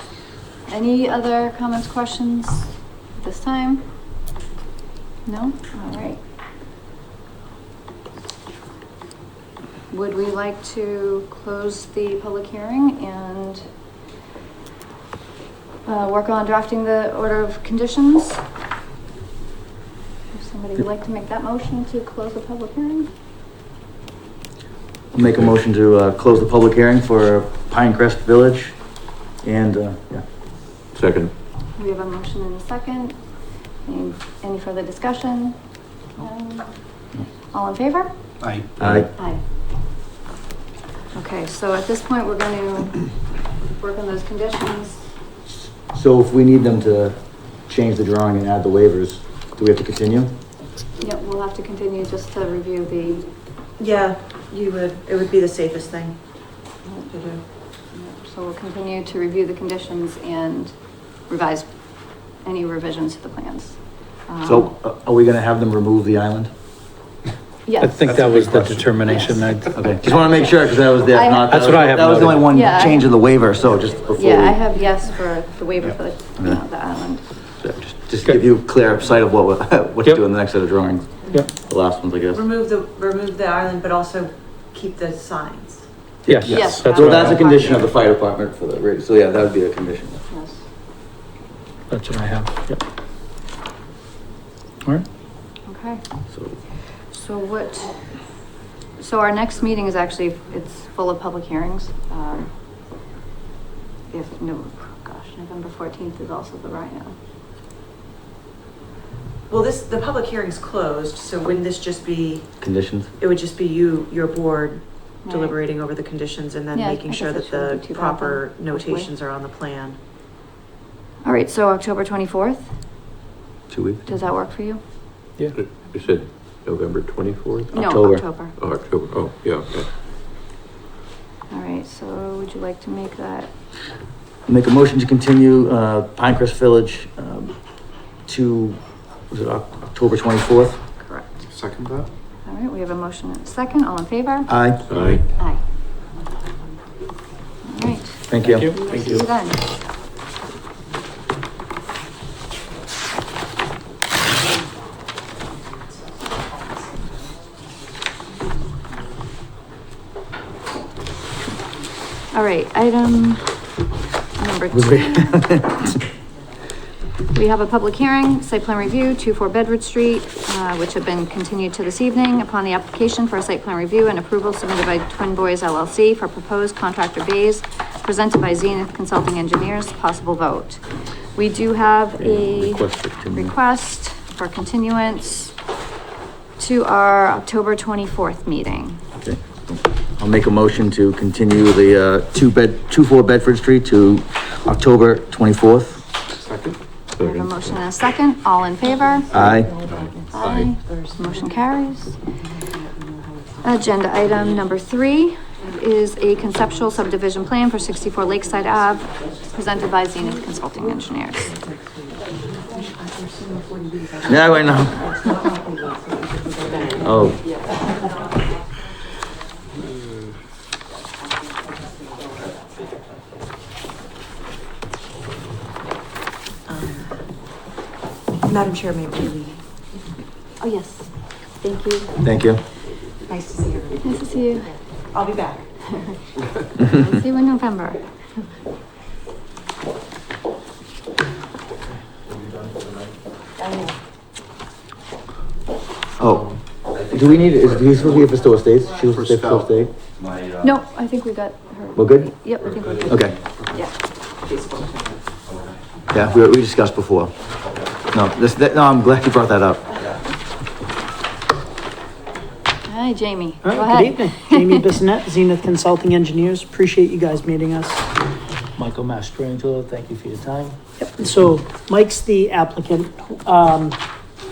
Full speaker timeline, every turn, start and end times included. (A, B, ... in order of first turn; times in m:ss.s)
0:00.7-0:03.8 A
0:05.3-0:06.2 A
0:09.9-0:13.7 A
0:15.9-0:18.4 A
0:20.3-0:23.1 A
0:25.1-0:28.8 B
0:25.2-0:25.5 C
0:29.4-0:30.2 B
0:31.0-0:31.3 C
0:31.8-0:35.6 A
0:36.2-0:36.7 A
0:37.5-0:38.1 A
0:38.5-0:38.8 D
0:38.8-0:39.1 B
0:39.2-0:39.4 A
0:41.1-0:43.1 A
0:43.7-0:45.1 A
0:45.7-0:50.3 B
0:51.0-0:53.3 A
0:53.8-0:56.2 E
0:57.1-0:57.4 E
0:57.9-1:00.8 A
1:01.3-1:01.7 A
1:02.4-1:04.7 A
1:04.4-1:06.5 B
1:07.7-1:08.1 A
1:07.8-1:09.8 F
1:08.2-1:08.8 D
1:09.0-1:11.7 A
1:09.7-1:14.6 B
1:11.5-1:12.5 F
1:12.5-1:13.1 A
1:14.1-1:17.2 A
1:17.6-1:22.4 B
1:22.3-1:25.9 E
1:26.3-1:27.4 F
1:26.3-1:30.2 B
1:26.5-1:27.9 A
1:30.3-1:30.6 A
1:31.9-1:32.8 F
1:35.7-1:36.0 A
1:37.1-1:38.1 A
1:39.0-1:42.5 A
1:44.1-1:47.2 A
1:49.5-1:52.5 E
1:52.6-1:53.1 B
1:53.2-2:00.0 E
1:55.3-1:55.6 A
1:56.8-1:59.1 A
2:01.2-2:02.8 A
2:03.7-2:04.0 B
2:04.1-2:04.8 A
2:05.5-2:07.7 C
2:07.7-2:08.5 A
2:07.7-2:08.2 B
2:08.5-2:09.9 C
2:11.5-2:13.5 A
2:14.5-2:17.5 B
2:18.3-2:18.8 B
2:19.3-2:20.8 B
2:21.0-2:21.5 A
2:21.5-2:22.1 D
2:22.4-2:24.5 A
2:24.5-2:24.8 B
2:24.9-2:25.2 C
2:27.6-2:29.6 A
2:28.3-2:28.7 B
2:28.4-2:29.2 F
2:42.3-2:43.6 A
2:44.4-2:45.6 A
2:44.7-2:45.9 B
2:47.3-3:00.8 A
3:01.4-3:05.6 A
3:02.2-3:03.5 B
3:06.6-3:09.0 A
3:09.2-3:16.0 B
3:16.4-3:16.8 D
3:17.2-3:17.6 C
3:17.2-3:19.4 A
3:19.3-3:21.2 E
3:19.3-3:19.7 B
3:20.3-3:22.2 A
3:22.4-3:23.8 E
3:23.6-3:31.5 A
3:31.5-3:37.3 E
3:34.3-3:35.0 B
3:37.0-3:37.4 B
3:46.7-3:47.1 E
3:48.4-3:49.6 E
3:50.6-3:51.1 A
3:51.6-3:52.2 A
3:52.2-3:52.6 B
3:53.3-3:54.5 E
3:54.0-3:54.7 A
3:55.1-3:55.7 E
3:56.8-3:58.0 A
4:06.2-4:06.5 B
4:07.1-4:09.9 B
4:09.2-4:09.6 D
4:10.6-4:13.9 A
4:12.0-4:12.3 B
4:13.1-4:13.4 B
4:14.4-4:15.2 E
4:16.1-4:17.3 B
4:18.1-4:20.0 B
4:22.9-4:24.9 A
4:23.6-4:28.1 G
4:28.8-4:30.8 F
4:31.0-4:34.0 G